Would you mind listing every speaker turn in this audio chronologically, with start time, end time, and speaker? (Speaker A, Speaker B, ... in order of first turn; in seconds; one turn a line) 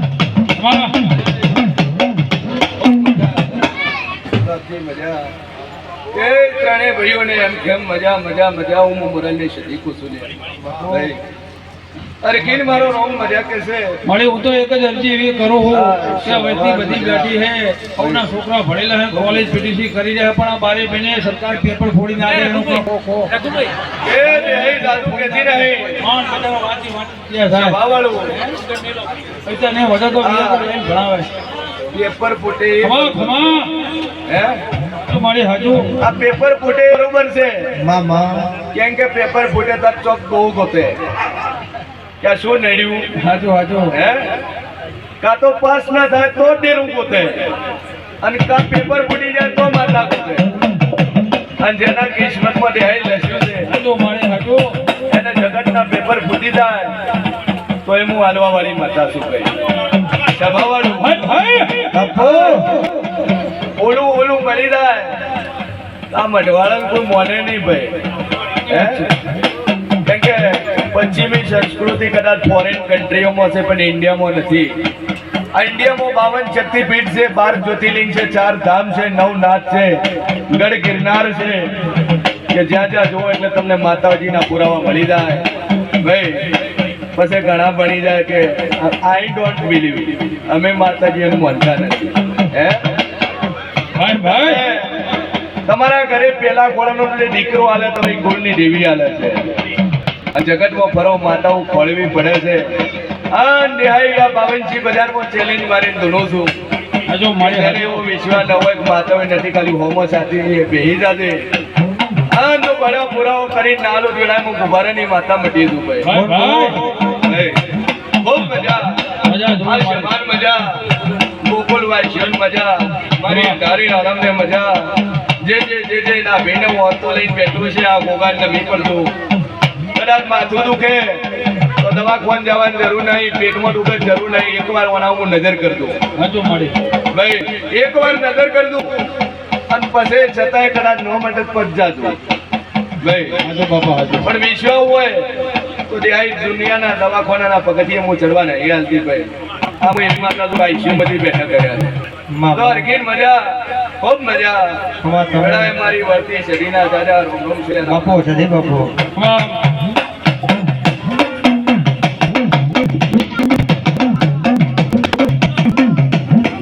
Speaker A: 0.6-0.9
Speaker B: 2.8-3.4
Speaker B: 4.3-5.3
Speaker B: 6.1-11.2
Speaker C: 10.6-11.1
Speaker B: 12.2-14.0
Speaker A: 14.1-23.3
Speaker B: 15.7-17.4
Speaker B: 18.0-18.2
Speaker B: 24.0-26.0
Speaker A: 24.8-25.3
Speaker A: 26.0-27.7
Speaker B: 27.5-28.3
Speaker A: 29.4-31.3
Speaker B: 30.2-30.6
Speaker B: 31.9-33.4
Speaker A: 32.8-33.7
Speaker B: 34.2-34.6
Speaker A: 35.1-35.9
Speaker B: 36.0-37.7
Speaker C: 37.8-38.5
Speaker B: 38.7-41.0
Speaker B: 42.2-43.1
Speaker A: 43.2-43.9
Speaker B: 43.9-44.3
Speaker B: 45.2-47.5
Speaker B: 48.2-50.4
Speaker B: 51.6-53.7
Speaker A: 53.7-54.7
Speaker B: 55.1-56.9
Speaker B: 57.8-59.5
Speaker B: 60.3-61.1
Speaker A: 61.0-61.9
Speaker C: 61.9-62.8
Speaker B: 62.1-62.6
Speaker B: 63.8-65.2
Speaker B: 66.1-67.9
Speaker B: 68.7-69.0
Speaker B: 70.0-74.8
Speaker B: 75.5-81.7
Speaker B: 82.5-85.4
Speaker B: 86.0-86.5
Speaker B: 87.1-92.8
Speaker A: 93.9-94.6
Speaker B: 94.2-95.0
Speaker B: 95.7-99.5
Speaker B: 100.3-102.7
Speaker B: 103.3-106.5
Speaker A: 107.1-108.0
Speaker B: 107.4-111.5
Speaker B: 112.3-116.2
Speaker A: 116.0-116.8
Speaker C: 116.1-116.8
Speaker B: 117.2-117.6
Speaker B: 118.2-120.6
Speaker A: 119.2-120.1
Speaker B: 121.4-129.1
Speaker A: 123.2-123.5
Speaker B: 129.9-136.0
Speaker A: 136.1-136.7
Speaker B: 137.1-138.9
Speaker B: 139.7-142.2
Speaker B: 143.0-143.4
Speaker A: 143.4-144.3
Speaker B: 144.2-145.2
Speaker B: 145.8-151.9
Speaker C: 152.3-152.9
Speaker B: 152.5-158.2
Speaker C: 155.0-155.7
Speaker C: 157.8-158.9
Speaker A: 159.1-159.6